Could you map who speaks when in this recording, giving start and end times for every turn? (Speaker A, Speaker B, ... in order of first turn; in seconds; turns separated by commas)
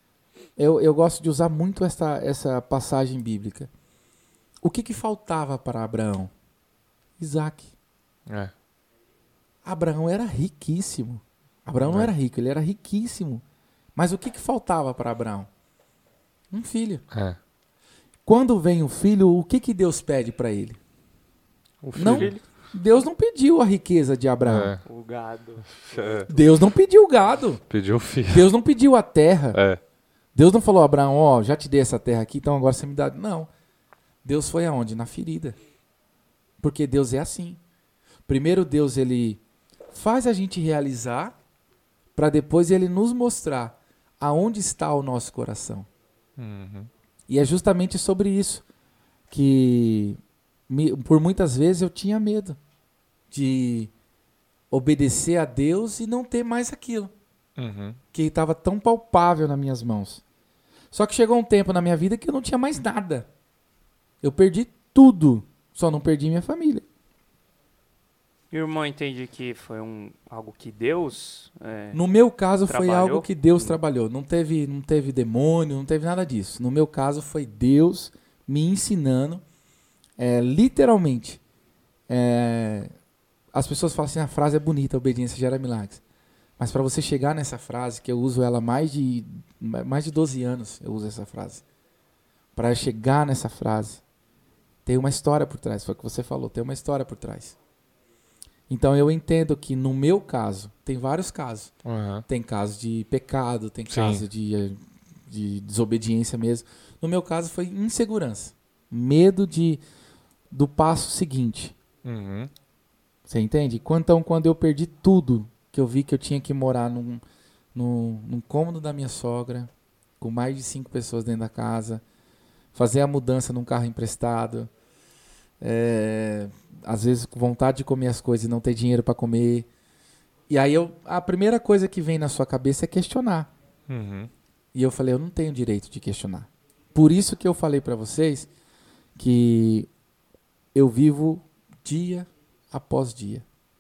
Speaker A: 0.6-3.7, Speaker A: 4.6-6.3, Speaker A: 7.2-7.7, Speaker B: 8.3-8.5, Speaker A: 9.7-13.4, Speaker B: 11.8-12.1, Speaker A: 13.9-15.5, Speaker A: 16.5-17.0, Speaker B: 17.1-17.4, Speaker A: 18.3-20.8, Speaker B: 21.8-22.3, Speaker C: 22.0-22.4, Speaker A: 22.0-24.7, Speaker B: 24.4-24.8, Speaker C: 24.8-26.5, Speaker B: 25.9-26.3, Speaker A: 26.3-27.6, Speaker B: 27.7-28.5, Speaker A: 28.3-29.6, Speaker B: 29.5-29.8, Speaker A: 30.4-33.5, Speaker A: 34.2-35.6, Speaker A: 36.6-37.6, Speaker A: 38.3-39.4, Speaker A: 39.9-41.4, Speaker A: 42.1-45.9, Speaker B: 46.4-46.9, Speaker A: 47.3-48.6, Speaker A: 49.3-52.6, Speaker A: 53.3-53.9, Speaker A: 54.7-57.1, Speaker B: 57.6-58.0, Speaker A: 58.1-60.2, Speaker A: 60.9-63.3, Speaker A: 64.2-66.8, Speaker C: 68.5-72.0, Speaker A: 71.9-79.4, Speaker C: 72.7-73.8, Speaker A: 80.2-81.4, Speaker A: 82.1-82.9, Speaker A: 83.5-86.0, Speaker A: 86.6-91.6, Speaker A: 92.6-94.0, Speaker A: 94.9-97.6, Speaker A: 98.7-101.7, Speaker B: 101.8-102.2, Speaker A: 102.3-109.8, Speaker B: 103.9-104.2, Speaker A: 110.5-111.8, Speaker B: 112.0-112.5, Speaker A: 113.3-117.2, Speaker A: 117.7-122.0, Speaker A: 122.8-124.7, Speaker A: 125.6-129.7, Speaker A: 130.5-133.5, Speaker B: 133.9-134.3, Speaker A: 134.7-138.5, Speaker A: 139.2-139.9, Speaker A: 140.8-143.4